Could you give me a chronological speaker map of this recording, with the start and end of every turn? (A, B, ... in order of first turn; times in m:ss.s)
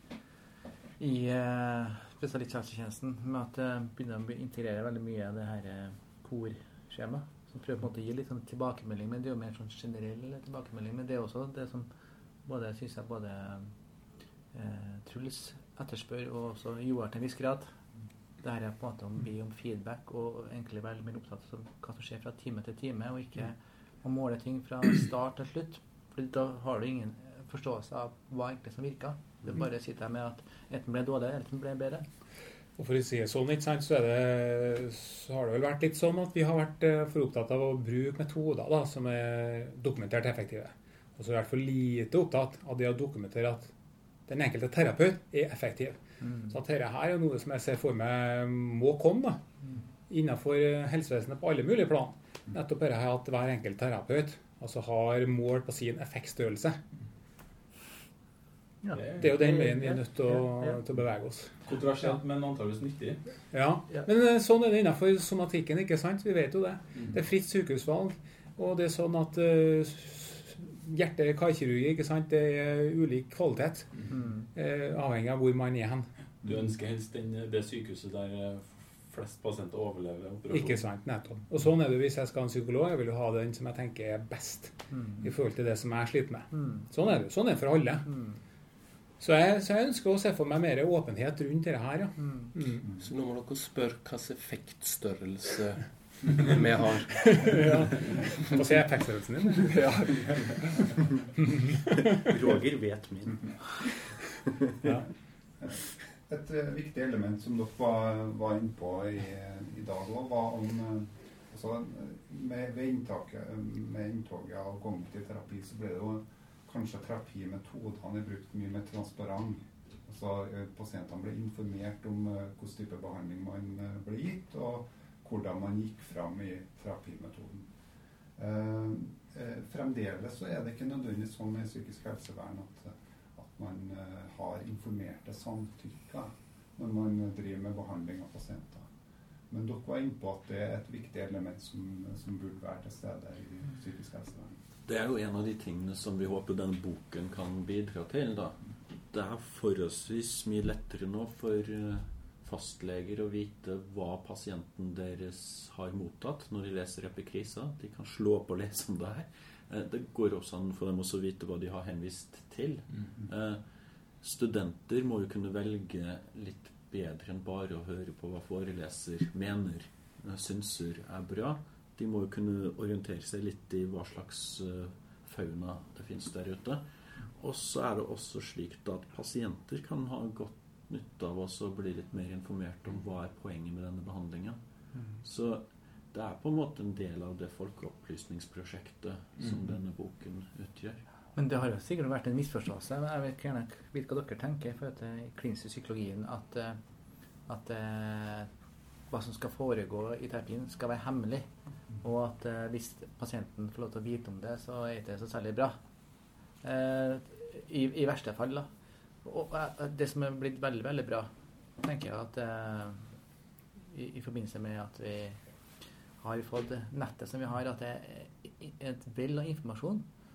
0:01.0-0:11.9 A
0:12.5-0:13.7 A
0:14.5-0:17.7 A
0:18.4-0:32.0 A
0:32.8-0:43.7 B
0:44.3-0:49.4 B
0:46.2-0:46.5 A
0:50.1-0:56.8 B
0:58.8-1:00.0 A
0:59.0-1:00.0 C
0:59.2-1:02.1 B
1:01.6-1:03.2 C
1:03.5-1:13.9 B
1:14.1-1:14.5 A
1:14.5-1:16.1 B
1:16.4-1:20.9 C
1:20.5-1:28.2 B
1:26.5-1:26.8 A
1:28.1-1:28.4 A
1:29.2-1:32.9 B
1:32.2-1:32.5 A
1:33.0-1:38.5 D
1:37.2-1:42.3 B
1:42.1-1:43.9 E
1:45.6-2:07.7 F
2:08.4-2:18.9 F
2:19.5-2:24.6 F
2:24.9-2:28.6 E
2:29.1-2:43.6 E
2:44.2-2:56.8 E
2:57.4-3:04.6 E
3:05.0-3:05.2 A
3:05.2-3:11.0 E
3:11.4-3:16.8 A
3:17.5-3:18.5 A
3:19.1-3:21.5 A
3:22.0-3:25.8 A
3:26.6-3:28.7 A
3:29.2-3:33.1 A
3:33.9-3:35.4 A
3:36.2-3:40.1 A